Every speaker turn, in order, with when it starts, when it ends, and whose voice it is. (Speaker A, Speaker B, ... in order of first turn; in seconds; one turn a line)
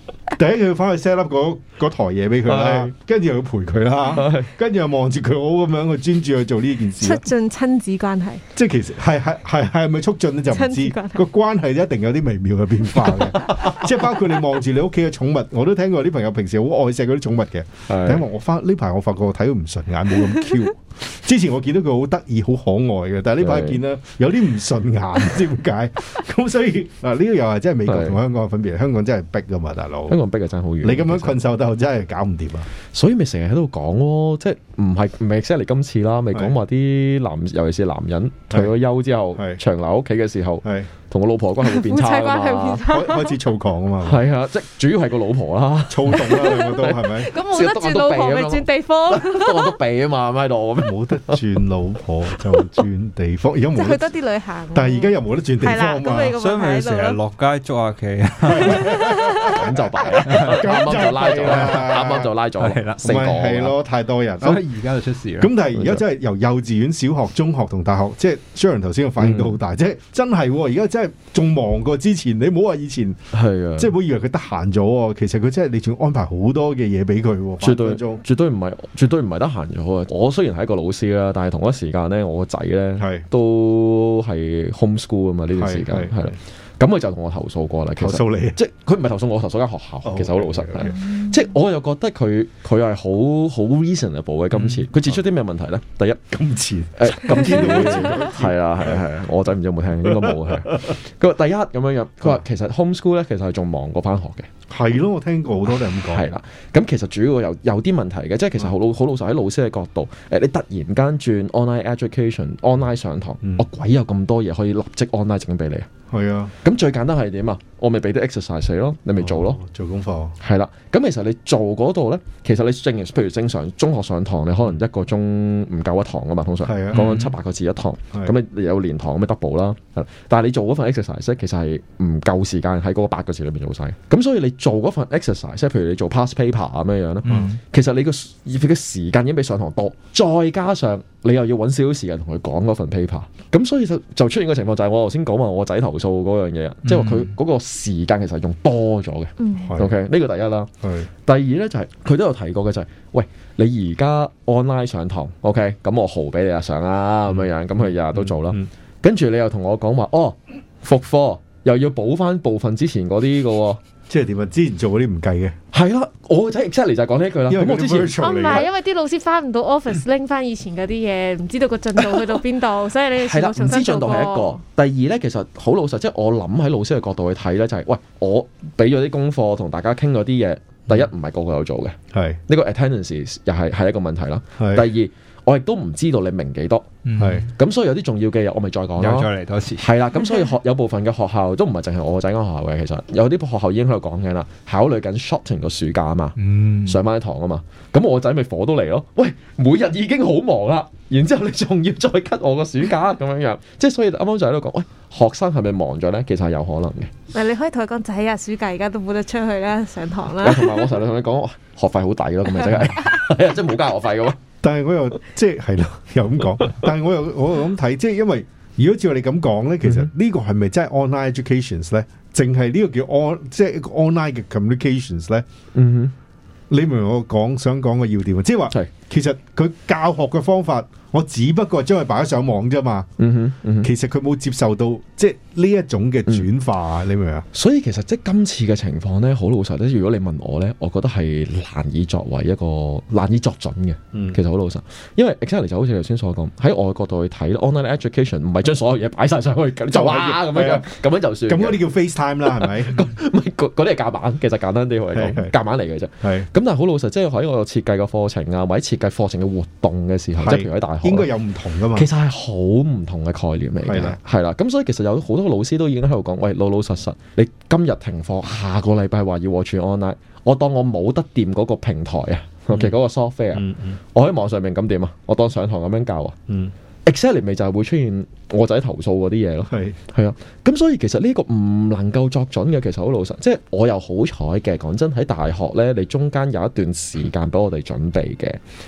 Speaker A: 0.3-7.2
Speaker B: 2.5-2.9
Speaker B: 4.2-4.5
Speaker C: 7.0-8.4
Speaker A: 8.6-30.2
Speaker C: 10.5-11.2
Speaker B: 13.1-13.8
Speaker B: 17.9-18.2
Speaker B: 23.4-23.8
Speaker B: 27.9-28.2
Speaker B: 30.1-31.4
Speaker A: 30.8-32.7
Speaker B: 32.9-42.8
Speaker A: 36.3-36.6
Speaker A: 39.4-39.6
Speaker A: 40.6-40.9
Speaker C: 41.6-43.3
Speaker A: 42.9-44.2
Speaker B: 44.0-51.4
Speaker A: 45.9-47.3
Speaker C: 46.3-49.8
Speaker A: 50.8-54.1
Speaker B: 52.3-52.8
Speaker C: 53.8-57.2
Speaker A: 54.7-56.4
Speaker D: 56.4-58.9
Speaker A: 58.5-62.3
Speaker C: 58.6-59.6
Speaker B: 59.5-63.8
Speaker D: 60.3-60.7
Speaker D: 62.6-63.0
Speaker A: 63.0-64.6
Speaker D: 64.4-65.5
Speaker A: 65.4-73.2
Speaker B: 65.8-66.0
Speaker B: 69.2-69.6
Speaker B: 73.3-73.9
Speaker A: 73.8-78.2
Speaker B: 77.6-96.2
Speaker A: 83.0-83.3
Speaker A: 85.5-86.4
Speaker A: 88.0-88.6
Speaker A: 90.0-91.0
Speaker D: 94.5-94.9
Speaker A: 96.3-99.0
Speaker B: 97.0-104.5
Speaker A: 100.0-100.9
Speaker A: 104.7-106.3
Speaker B: 106.0-115.9
Speaker A: 116.1-116.5
Speaker B: 116.6-119.6
Speaker A: 119.2-120.3
Speaker B: 120.4-163.8
Speaker A: 126.6-127.1
Speaker D: 126.9-127.3
Speaker D: 137.2-137.6
Speaker D: 146.8-147.3
Speaker C: 149.4-149.7
Speaker A: 149.6-149.9
Speaker A: 150.8-151.1
Speaker A: 158.1-158.7
Speaker A: 164.1-165.6
Speaker B: 165.7-168.2
Speaker A: 167.5-168.7
Speaker C: 168.2-174.6
Speaker B: 173.2-186.9
Speaker A: 182.1-182.4
Speaker A: 184.6-184.9
Speaker D: 187.1-187.5
Speaker A: 187.2-187.5
Speaker B: 187.6-207.1
Speaker D: 189.0-189.9
Speaker D: 196.4-197.0
Speaker C: 207.3-210.8
Speaker B: 210.4-214.4
Speaker A: 214.6-225.4
Speaker B: 219.8-220.1
Speaker B: 225.7-226.1
Speaker A: 226.7-233.1
Speaker B: 233.2-233.9
Speaker A: 233.8-237.5
Speaker B: 237.5-251.8
Speaker A: 244.1-244.4
Speaker A: 249.9-250.9
Speaker A: 251.4-253.1
Speaker B: 252.4-261.3
Speaker A: 255.1-255.5
Speaker A: 256.2-256.5
Speaker A: 260.4-262.1
Speaker B: 261.9-276.4
Speaker A: 263.8-264.2
Speaker A: 273.5-274.0
Speaker B: 277.1-288.6
Speaker A: 279.7-280.0